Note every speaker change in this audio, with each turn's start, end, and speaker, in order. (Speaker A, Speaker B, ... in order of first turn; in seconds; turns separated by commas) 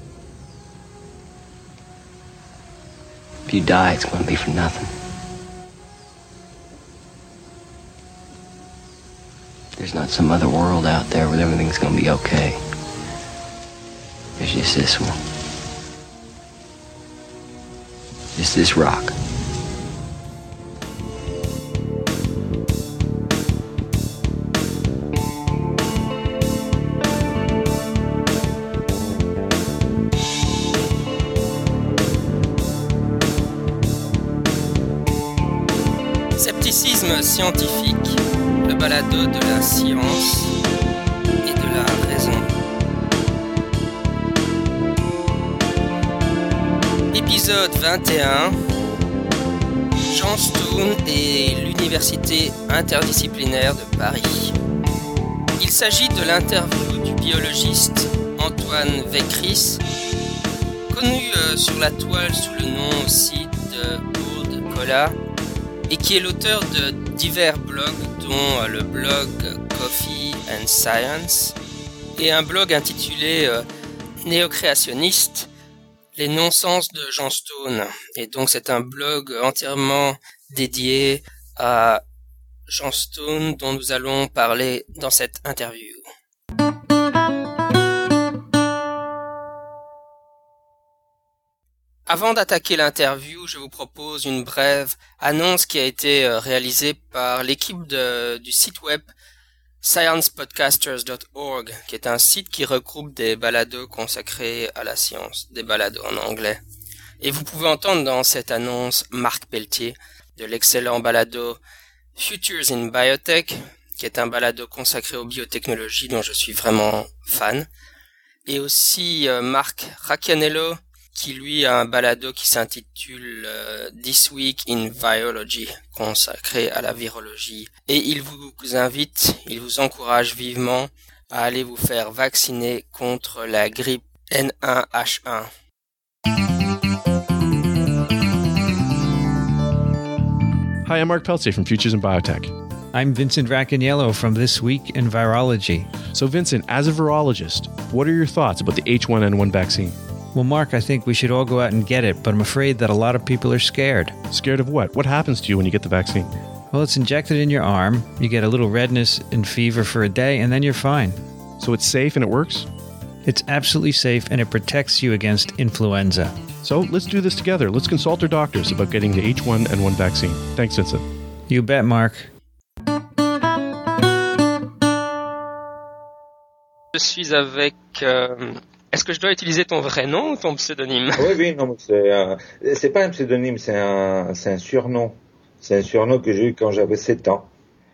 Speaker A: 3.5-4.9, Speaker A: 9.8-12.6, Speaker A: 14.4-15.1, Speaker A: 18.4-19.1, Speaker B: 36.4-40.5, Speaker B: 41.4-42.5, Speaker B: 47.1-48.6, Speaker B: 50.1-54.5, Speaker B: 55.6-59.8, Speaker B: 60.9-65.2, Speaker B: 65.9-71.5, Speaker B: 72.2-73.6, Speaker B: 74.2-75.5, Speaker B: 76.2-82.0, Speaker B: 82.7-86.0, Speaker B: 92.1-99.1, Speaker B: 99.8-106.6, Speaker B: 107.2-111.6, Speaker B: 112.2-117.7, Speaker B: 118.5-135.5, Speaker C: 140.8-142.5, Speaker D: 142.9-145.9, Speaker C: 146.1-149.9, Speaker D: 150.3-154.1, Speaker C: 154.3-156.3, Speaker D: 156.7-161.2, Speaker C: 161.6-162.7, Speaker D: 163.2-166.3, Speaker C: 166.6-171.0, Speaker D: 171.5-172.3, Speaker B: 176.9-181.3, Speaker E: 181.2-187.5